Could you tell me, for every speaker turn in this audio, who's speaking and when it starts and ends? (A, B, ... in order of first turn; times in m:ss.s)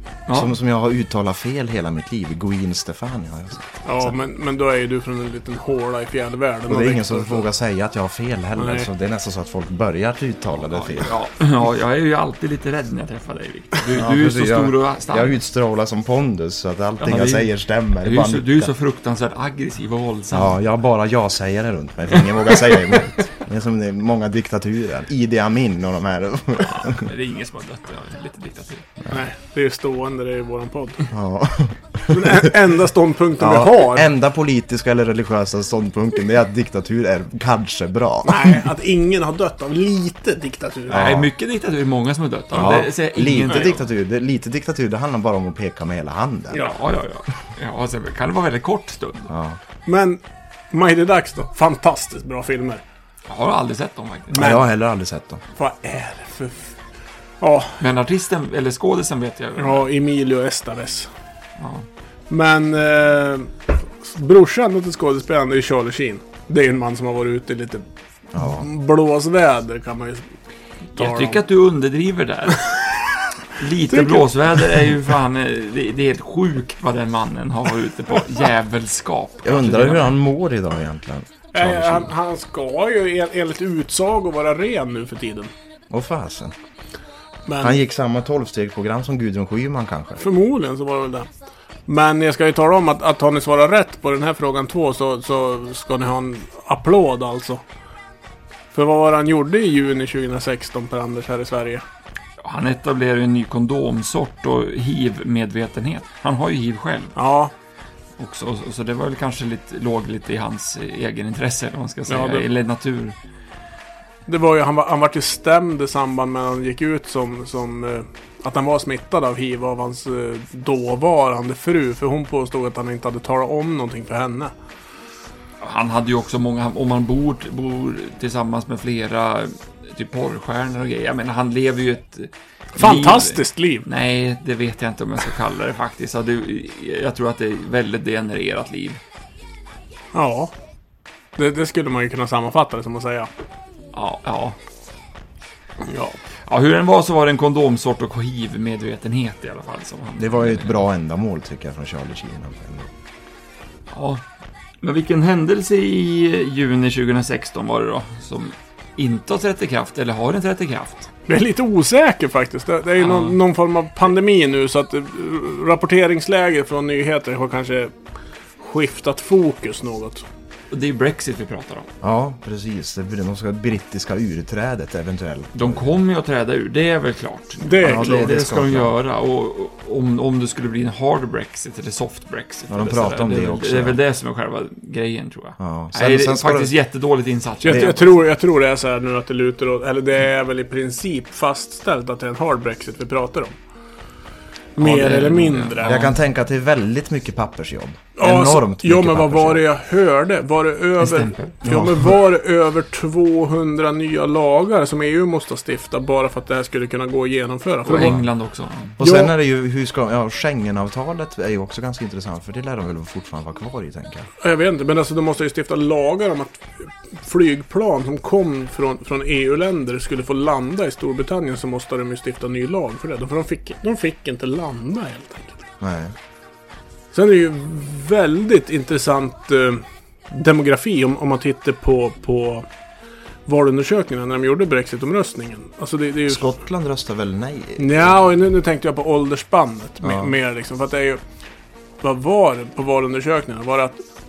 0:00.3-0:00.6 A
0:00.3-0:04.1 B
0:03.9-0:07.5 C
0:06.7-0:11.1 B
0:08.6-0:08.9 C
0:10.6-0:15.4 A
0:14.0-0:18.7 B
0:17.0-0:20.6 A
0:20.3-0:27.1 B
0:26.6-0:28.9 A
0:29.1-0:31.1 C
0:31.1-0:32.5 B
0:32.1-0:34.1 C
0:33.4-0:38.6 B
0:38.3-0:41.0 C
0:40.9-0:41.3 B
0:40.9-0:43.8 A
0:42.5-0:46.6 B
0:46.5-0:49.3 A
0:49.3-0:49.6 B
0:49.9-0:50.2 C
0:50.7-0:52.8 C
0:53.3-0:54.4 A
0:54.3-0:54.6 C
0:54.4-0:55.4 B
0:55.6-0:56.7 C
0:57.4-0:57.8 C
0:57.8-0:59.9 A
0:59.6-1:01.1 C
1:01.6-1:01.9 A
1:02.3-1:07.8 C
1:08.3-1:08.7 B
1:08.4-1:10.3 C
1:11.0-1:11.4 C
1:11.0-1:12.6 A
1:13.6-1:20.2 A
1:13.9-1:14.7 C
1:19.4-1:22.1 B
1:21.5-1:25.5 C
1:25.9-1:26.6 B
1:27.5-1:27.8 C
1:27.6-1:30.2 B
1:30.2-1:31.3 C
1:31.9-1:37.6 C
1:38.7-1:41.8 C
1:42.4-1:47.2 A
1:47.2-1:47.5 C
1:48.2-1:53.2 A
1:52.1-1:52.5 C
1:54.3-2:04.5 C
2:05.6-2:19.0 A
2:12.8-2:13.9 C
2:20.1-2:20.5 C
2:21.4-2:23.3 C
2:23.9-2:24.6 A
2:25.9-2:26.2 C
2:26.5-2:30.8 A
2:30.2-2:32.9 B
2:33.9-2:34.2 A
2:34.8-2:41.1 A
2:41.3-2:47.9 C
2:43.0-2:43.4 A
2:48.6-2:50.2 C
2:50.7-2:51.9 A
2:52.0-2:55.9 B
2:55.5-3:08.1 A
2:57.6-2:58.4 C
2:57.8-2:58.9 B
3:02.7-3:04.0 B
3:05.6-3:06.7 B
3:07.6-3:13.5 C
3:07.7-3:07.9 B
3:14.8-3:16.0 C
3:14.8-3:16.2 A
3:15.8-3:19.6 B
3:18.2-3:28.2 C
3:21.0-3:21.6 A
3:21.6-3:22.1 B
3:27.8-3:29.0 A
3:28.0-3:28.3 B
3:29.0-3:34.3 B
3:29.0-3:29.3 C
3:34.4-3:45.7 C
3:45.8-3:46.1 B
3:47.1-3:52.7 C
3:53.5-3:56.5 C
3:56.3-3:58.2 B
3:57.8-4:01.2 C
4:00.0-4:00.4 B
4:02.0-4:04.0 C